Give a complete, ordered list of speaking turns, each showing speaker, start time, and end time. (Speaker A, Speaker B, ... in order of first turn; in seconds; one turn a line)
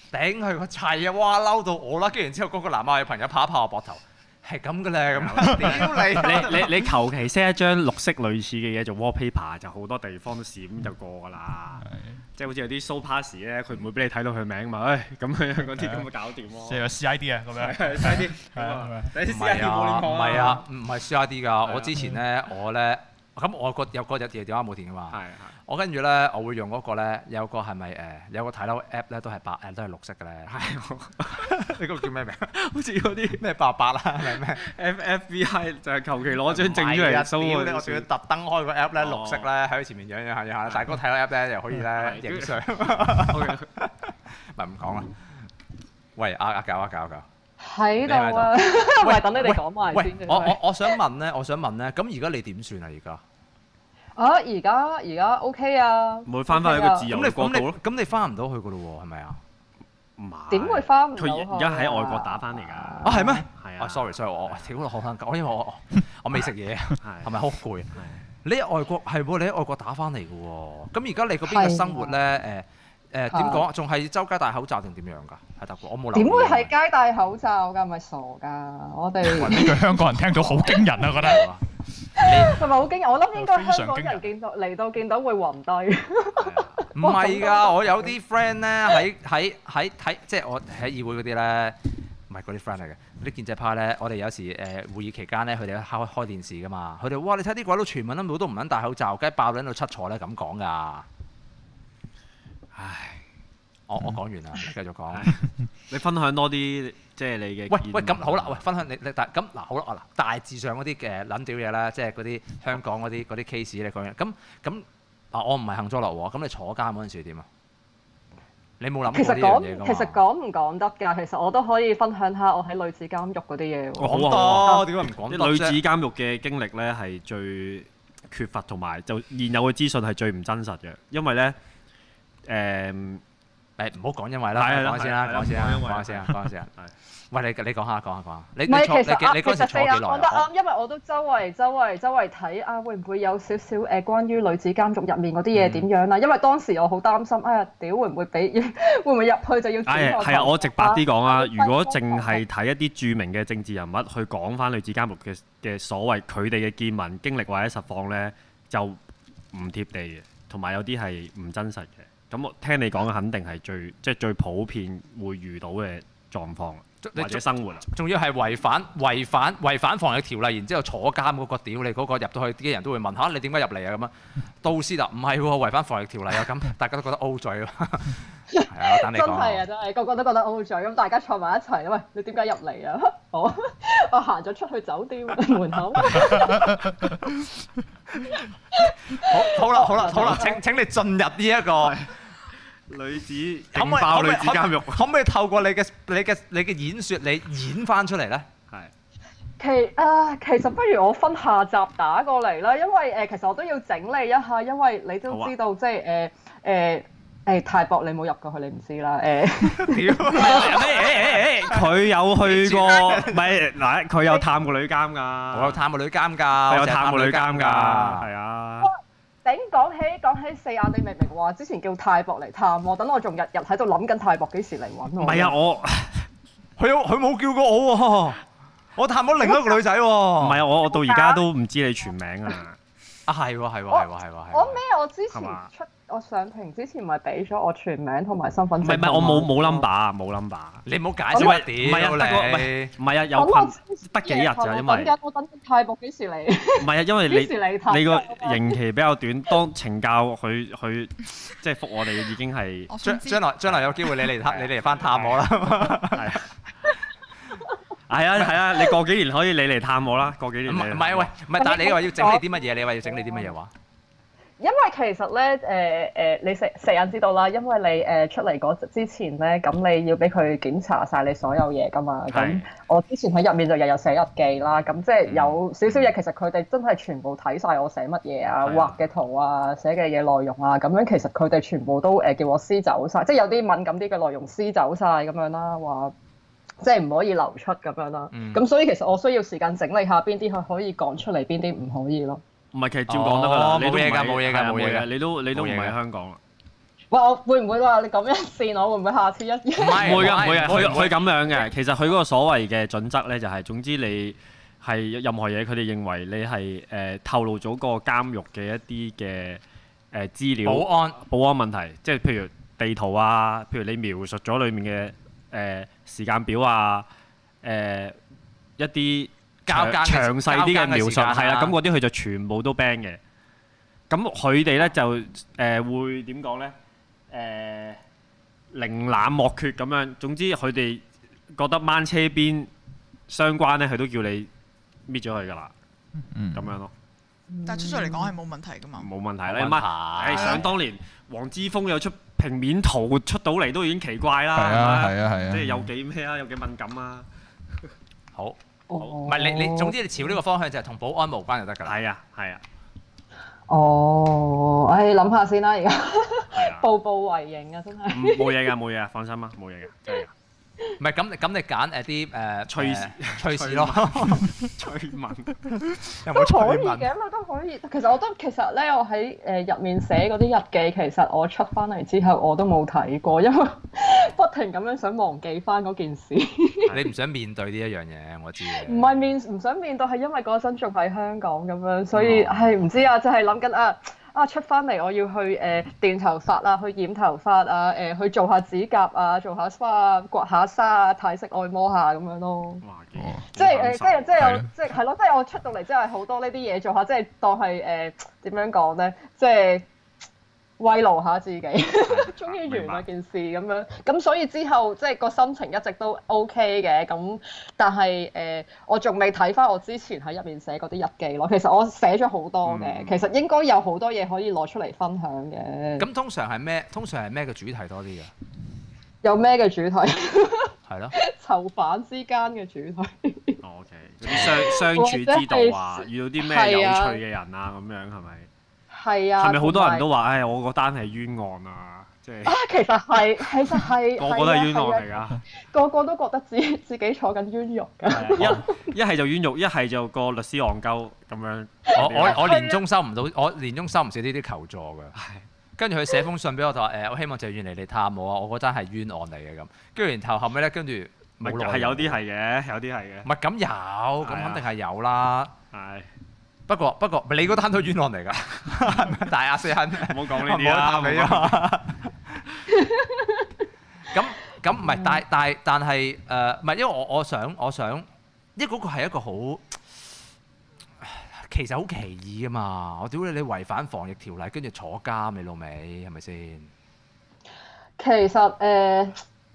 Speaker A: 0.1-6.8
Speaker B: 5.1-16.9
Speaker C: 16.6-19.1
Speaker B: 17.5-20.6
Speaker A: 19.2-30.5
Speaker B: 21.6-21.9
Speaker B: 25.1-25.6
Speaker B: 30.4-31.5
Speaker A: 31.4-32.5
Speaker B: 32.5-33.4
Speaker A: 33.4-34.6
Speaker B: 34.3-38.1
Speaker A: 36.5-43.9
Speaker B: 39.0-39.5
Speaker B: 41.9-43.7
Speaker A: 44.5-45.1
Speaker A: 46.1-47.2
Speaker D: 47.6-50.6
Speaker A: 48.0-53.2
Speaker D: 54.1-57.1
Speaker B: 56.2-57.8
Speaker A: 57.1-59.4
Speaker B: 60.2-64.7
Speaker D: 60.5-63.4
Speaker A: 63.0-67.9
Speaker B: 67.0-67.3
Speaker B: 67.9-68.2
Speaker A: 68.4-76.7
Speaker D: 71.5-72.2
Speaker D: 73.3-73.7
Speaker D: 76.1-80.0
Speaker C: 79.3-81.5
Speaker A: 79.4-79.7
Speaker A: 80.3-81.6
Speaker A: 82.2-82.6
Speaker D: 82.2-88.1
Speaker C: 83.3-84.3
Speaker B: 86.4-86.8
Speaker A: 86.9-91.8
Speaker A: 92.3-101.0
Speaker B: 102.7-103.2
Speaker A: 103.9-105.3
Speaker B: 105.1-105.4
Speaker B: 105.9-108.6
Speaker A: 107.7-117.5
Speaker A: 118.8-120.2
Speaker D: 119.1-124.9
Speaker B: 124.0-131.6
Speaker A: 124.0-125.8
Speaker B: 132.4-133.2
Speaker A: 133.8-136.7
Speaker B: 134.6-136.9
Speaker A: 137.3-140.4
Speaker D: 138.7-152.4
Speaker B: 145.5-145.8
Speaker B: 149.8-159.0
Speaker B: 159.5-167.8
Speaker A: 167.0-179.6
Speaker D: 178.5-186.9
Speaker D: 188.7-190.6
Speaker A: 189.2-192.0
Speaker B: 190.1-190.5
Speaker B: 191.8-195.1
Speaker A: 193.7-198.5
Speaker D: 199.6-210.8
Speaker B: 205.3-205.5
Speaker A: 209.7-211.9
Speaker B: 210.3-215.8
Speaker A: 212.4-213.5
Speaker A: 215.5-218.3
Speaker B: 216.7-218.9
Speaker D: 218.8-225.5
Speaker B: 225.2-226.3
Speaker A: 226.8-228.4
Speaker A: 228.9-230.6
Speaker D: 229.4-229.8
Speaker B: 230.4-232.8
Speaker D: 230.9-231.4
Speaker A: 233.3-234.8
Speaker D: 233.9-239.8
Speaker B: 235.3-235.7
Speaker B: 238.8-245.1
Speaker A: 240.8-242.9
Speaker D: 243.3-248.8
Speaker B: 246.8-252.9
Speaker E: 252.9-253.4
Speaker A: 253.0-256.3
Speaker B: 254.4-255.5
Speaker B: 256.1-256.5
Speaker B: 258.1-261.3
Speaker A: 260.6-263.7
Speaker D: 261.6-262.4
Speaker D: 263.1-263.5
Speaker D: 264.6-286.1
Speaker B: 272.3-272.7
Speaker B: 275.2-276.1
Speaker B: 278.6-279.0
Speaker D: 286.8-292.4
Speaker A: 288.3-288.6
Speaker B: 292.7-296.4
Speaker A: 293.1-295.9
Speaker D: 297.1-300.8
Speaker A: 299.8-301.2
Speaker B: 300.0-317.1
Speaker A: 310.6-311.2
Speaker B: 317.6-318.2
Speaker B: 318.8-323.2
Speaker A: 319.6-321.8
Speaker B: 324.1-326.8
Speaker B: 327.3-328.0
Speaker B: 328.7-332.7
Speaker B: 333.3-334.5
Speaker B: 335.1-335.7
Speaker C: 336.3-336.6
Speaker B: 336.5-336.9
Speaker D: 337.5-338.3
Speaker E: 337.6-339.1
Speaker B: 339.0-347.3
Speaker A: 339.5-340.7
Speaker E: 340.3-340.6
Speaker C: 344.6-345.8
Speaker D: 348.9-349.9
Speaker A: 349.2-352.0
Speaker B: 351.8-352.6
Speaker D: 353.7-358.7
Speaker B: 356.5-356.9
Speaker B: 358.1-360.3
Speaker A: 361.0-364.5
Speaker B: 362.7-365.6
Speaker A: 366.1-367.1
Speaker D: 366.3-376.9
Speaker B: 376.8-377.1
Speaker A: 376.9-379.3
Speaker D: 378.6-392.8
Speaker B: 382.1-383.0
Speaker B: 392.8-394.6
Speaker D: 393.5-399.9
Speaker C: 394.4-394.7
Speaker D: 400.8-416.1
Speaker B: 402.1-403.1
Speaker A: 412.6-413.1
Speaker A: 416.0-418.3
Speaker D: 419.2-423.6
Speaker A: 420.9-421.1
Speaker B: 423.6-428.5
Speaker D: 424.3-427.2
Speaker D: 428.9-430.0
Speaker B: 429.4-432.6
Speaker D: 432.4-435.0
Speaker B: 434.1-435.4
Speaker D: 435.7-438.8
Speaker B: 438.1-442.6
Speaker A: 441.9-445.1
Speaker D: 441.9-442.8
Speaker B: 445.1-445.4
Speaker A: 445.8-452.2
Speaker B: 451.4-453.3
Speaker A: 453.2-455.5
Speaker B: 454.2-454.7
Speaker B: 455.7-456.1
Speaker A: 456.7-462.1
Speaker B: 460.0-461.6
Speaker D: 462.8-463.3
Speaker A: 464.1-469.7
Speaker A: 471.0-476.7
Speaker D: 478.0-479.1